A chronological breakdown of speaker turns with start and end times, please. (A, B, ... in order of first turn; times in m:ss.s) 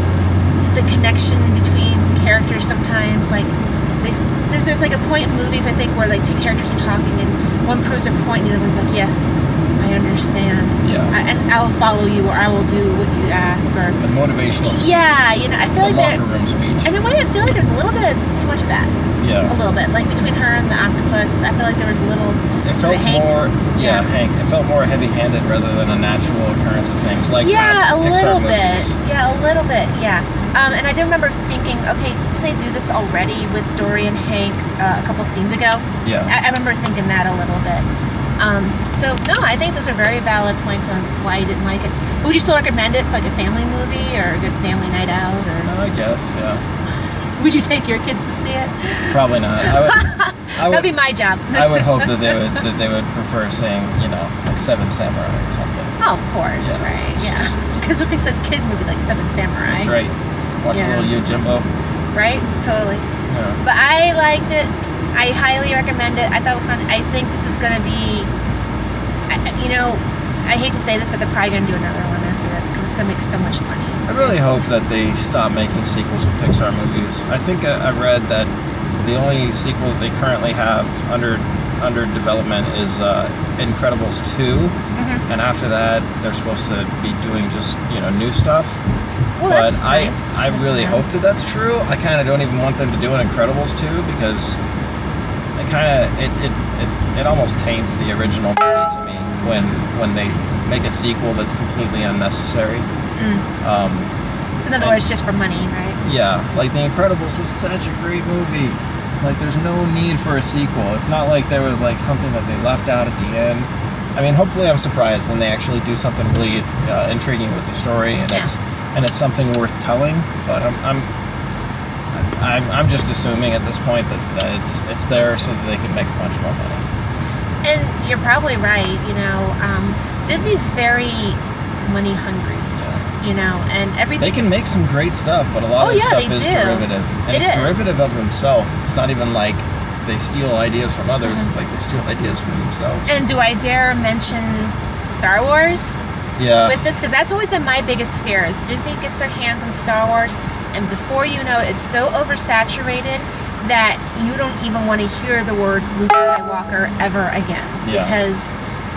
0:00.7-0:14.0 A
0:10.8-0:11.1 B
0:14.0-0:15.2 B
0:14.6-0:16.2 A
0:15.8-0:16.9 B
0:16.8-0:18.9 A
0:19.2-0:19.6 B
0:19.5-0:24.0 A
0:22.6-0:29.0 B
0:27.4-0:37.8 A
0:36.0-0:36.3 B
0:38.4-0:45.7 A
0:45.6-0:46.6 B
0:47.4-0:52.4 A
0:49.1-0:50.9 B
0:51.5-0:55.9 B
0:56.0-0:59.9 A
0:56.6-0:57.5 B
0:59.7-1:01.7 B
1:00.7-1:01.1 A
1:02.1-1:03.0 A
1:03.3-1:03.6 B
1:03.6-1:08.3 A
1:09.3-1:14.6 A
1:14.1-1:24.7 B
1:24.9-1:25.2 A
1:25.3-1:28.8 B
1:29.4-1:31.0 A
1:29.4-1:34.6 B
1:35.6-1:42.8 B
1:43.2-1:43.4 A
1:43.6-1:44.1 B
1:44.6-1:46.0 A
1:46.0-2:01.1 B
2:02.1-2:06.8 B
2:07.6-2:14.4 A
2:12.7-2:13.0 B
2:14.2-2:23.1 B
2:15.8-2:17.9 A
2:21.2-2:21.5 A
2:23.1-2:26.0 A
2:26.4-2:26.8 B
2:26.6-2:38.6 A
2:37.8-2:38.2 B